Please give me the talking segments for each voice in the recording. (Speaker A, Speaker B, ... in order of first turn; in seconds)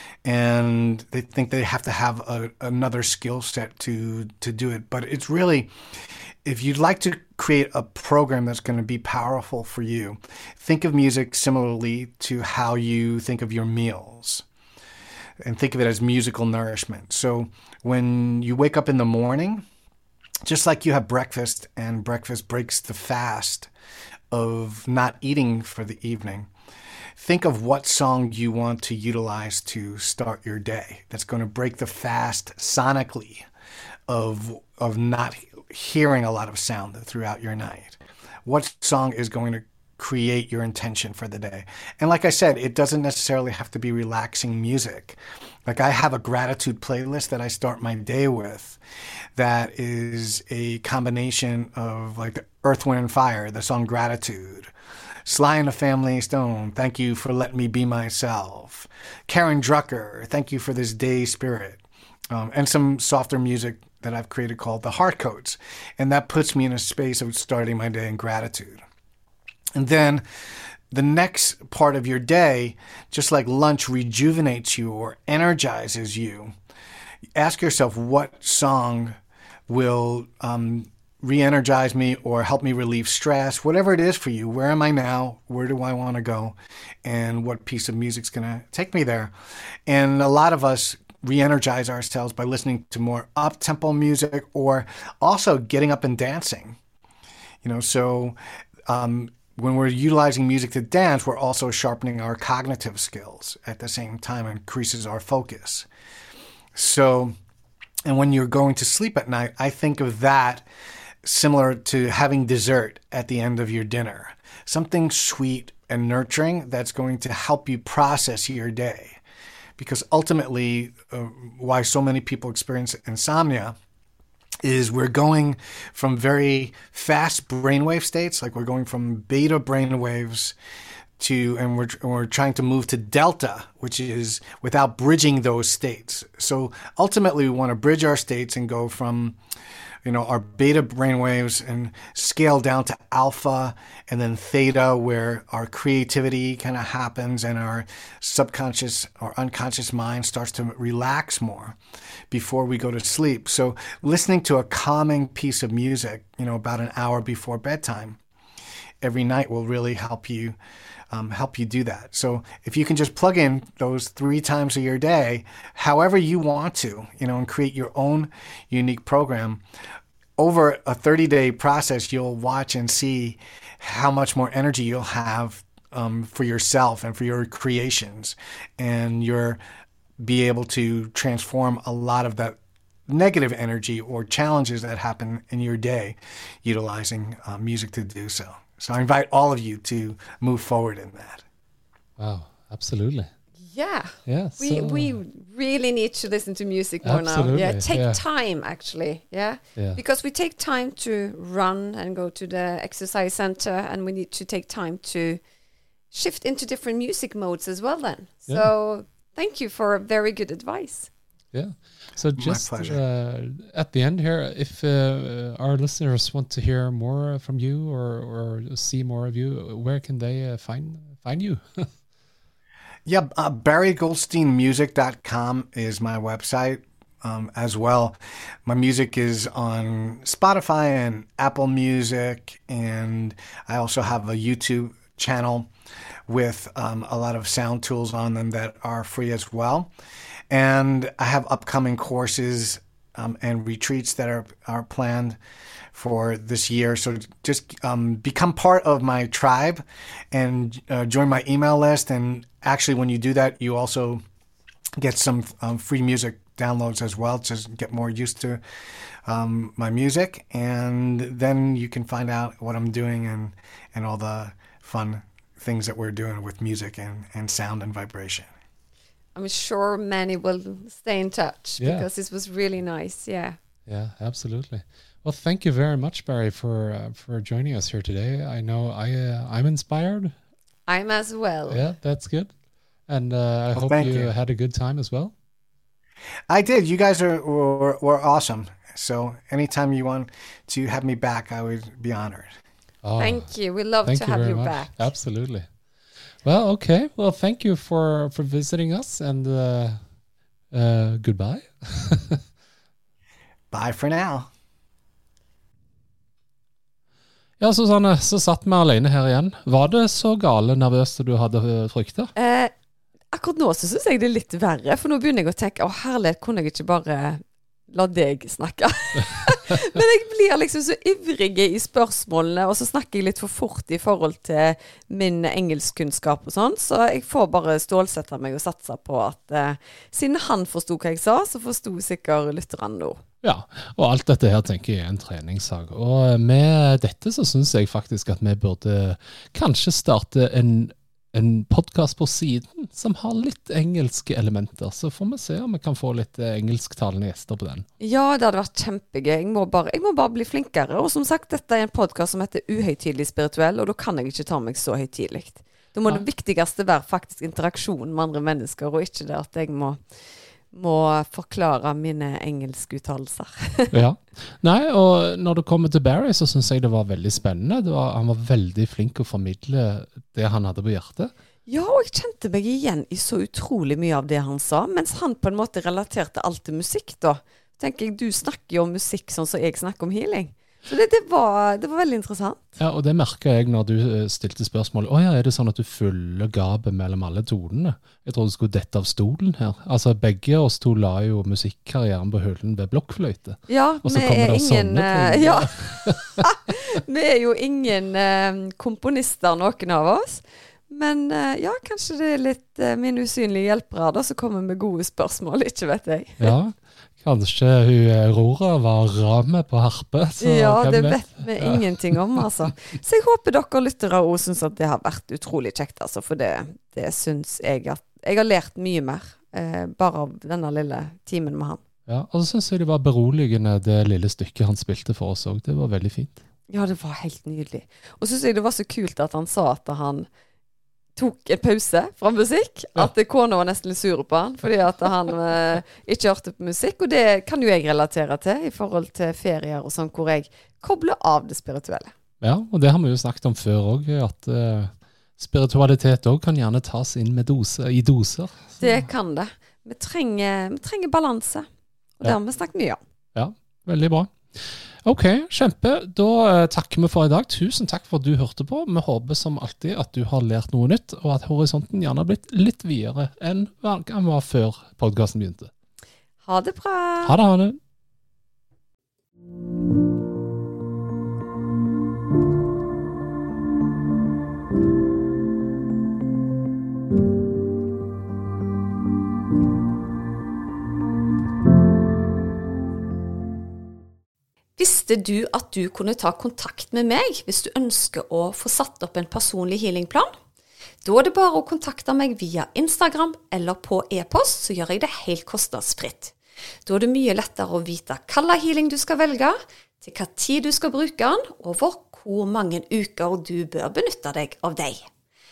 Speaker A: 0.2-5.7, 6.4-14.4, 15.4-19.6, 20.4-23.7, 24.3-26.5, 27.2-33.5, 34.1-48.8, 49.4-54.7, 55.2-68.8, 69.7-70.2, 70.9-76.5, 77.3-79.2, 79.7-89.3, 89.8-96.8, 97.6-98.3, 98.9-105.9, 106.7-107.3, 108.0-110.7, 111.2-119.2, 119.8-123.7, 124.6-130.6, 131.2-139.4, 140.0-151.8, 152.3-158.2, 159.0-160.6, 161.1-169.6, 170.4-179.6, 180.2-191.4, 212.4-213.0, 223.1-235.7, 236.3-239.9, 240.5-245.4, 245.9-254.2, 255.0-258.6, 259.2-268.5, 283.8-284.3, 286.5-292.6, 303.7-304.5
Speaker B: 192.2-193.3, 194.2-195.2, 197.0-198.2, 211.5-221.9, 271.8-272.1, 273.9-280.3, 281.7-282.5, 283.1-285.3, 293.0-295.7, 296.4-300.0, 300.7-302.4, 307.6-312.3, 333.4-347.9, 363.9-371.3, 382.8-396.8, 406.4-412.4, 422.1-426.4, 442.4-449.1, 453.3-465.7, 467.2-467.8
Speaker C: 193.6-205.4, 206.1-211.1, 269.4-273.6, 280.9-281.8, 293.2-295.1, 312.4-312.7, 313.3-333.2, 348.0-360.0, 360.7-363.9, 371.7-382.8, 393.7-406.6, 410.4-421.8, 426.7-430.3, 431.1-442.1, 448.8-451.7, 452.2-453.0, 466.4-467.4, 484.8-490.3, 491.0-505.1